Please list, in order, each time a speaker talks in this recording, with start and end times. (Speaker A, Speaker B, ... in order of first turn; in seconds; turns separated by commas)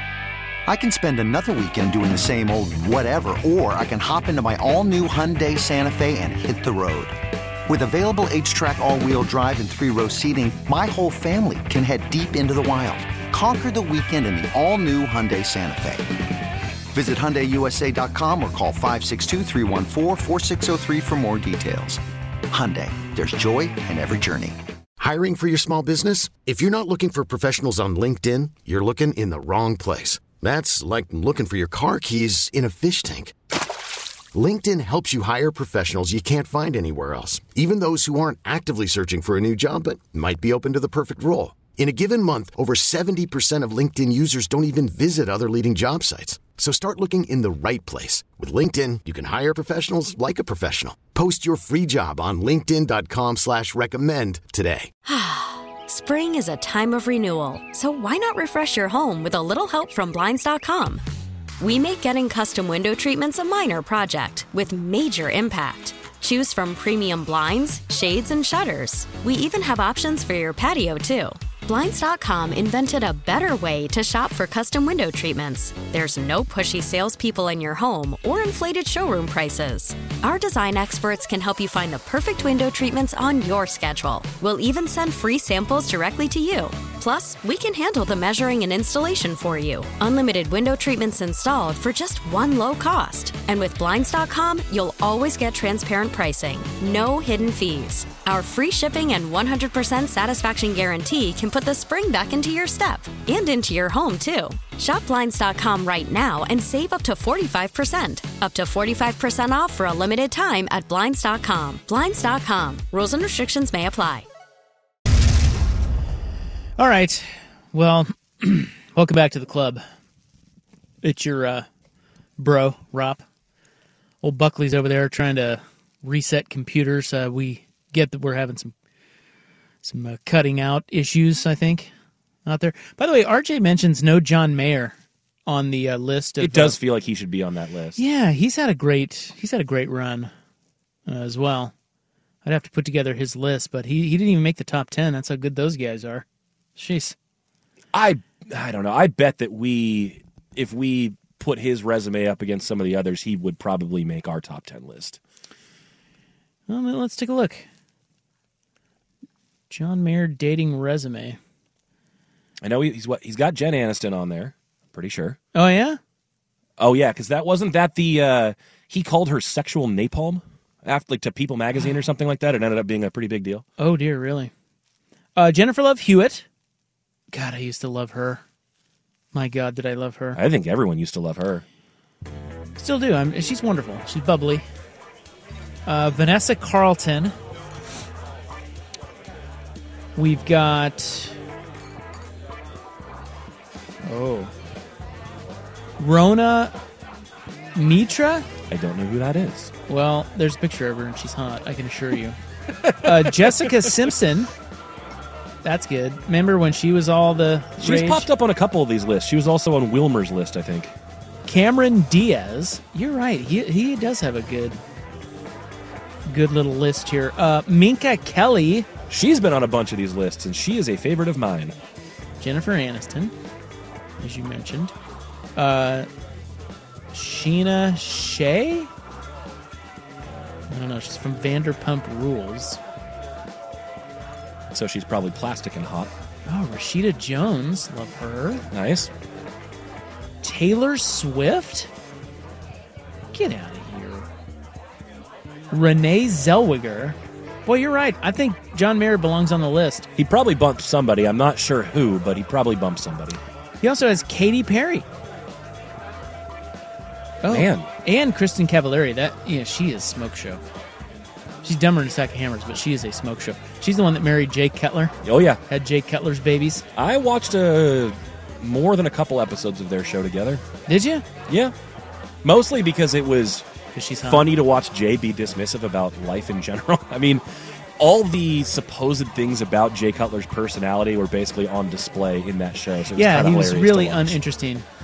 Speaker A: 0.7-7.2, Speaker A: 7.7-16.1, Speaker A: 16.9-24.6, Speaker B: 25.0-33.4, Speaker B: 34.3-54.9, Speaker C: 55.1-61.0, Speaker C: 61.6-114.3, Speaker D: 116.8-119.8, Speaker D: 121.0-121.7, Speaker D: 122.4-123.2, Speaker D: 124.2-128.7, Speaker D: 129.8-131.9, Speaker D: 132.5-135.0, Speaker D: 135.5-136.8, Speaker E: 136.4-138.0, Speaker D: 138.0-140.3, Speaker D: 141.1-141.7, Speaker D: 142.4-146.2, Speaker D: 146.8-147.2, Speaker E: 147.9-155.2, Speaker D: 156.7-157.7, Speaker D: 159.7-161.4, Speaker E: 162.6-165.4, Speaker D: 165.6-166.0, Speaker E: 166.8-173.6, Speaker D: 173.8-174.5, Speaker D: 175.4-176.5, Speaker D: 177.3-178.4, Speaker D: 179.3-180.4, Speaker E: 180.4-181.6, Speaker D: 182.8-184.7, Speaker D: 185.9-187.3, Speaker D: 190.2-191.3, Speaker D: 194.1-194.5, Speaker D: 196.0-196.7, Speaker D: 197.8-198.5, Speaker E: 198.7-199.7, Speaker D: 199.9-202.4, Speaker E: 202.8-203.9, Speaker D: 203.0-204.5, Speaker D: 205.6-208.3, Speaker E: 207.8-210.9, Speaker D: 211.5-214.8, Speaker D: 216.3-218.9, Speaker E: 219.1-221.8, Speaker D: 222.4-223.3, Speaker D: 224.2-224.9, Speaker D: 225.6-226.1, Speaker D: 227.1-228.9, Speaker D: 230.7-232.8, Speaker E: 234.7-236.1, Speaker D: 236.5-238.6, Speaker E: 238.7-239.1, Speaker D: 240.4-241.9, Speaker D: 243.3-244.3, Speaker D: 245.7-250.1, Speaker E: 250.2-253.4, Speaker D: 253.8-255.1, Speaker D: 257.4-260.6, Speaker E: 257.5-257.9, Speaker D: 261.6-265.2, Speaker E: 265.2-265.6, Speaker D: 265.7-266.8, Speaker E: 267.0-270.6, Speaker D: 270.9-271.2, Speaker E: 271.5-271.7, Speaker E: 272.4-273.6, Speaker D: 273.9-274.5, Speaker E: 274.2-277.4, Speaker E: 278.0-284.4, Speaker D: 283.2-284.9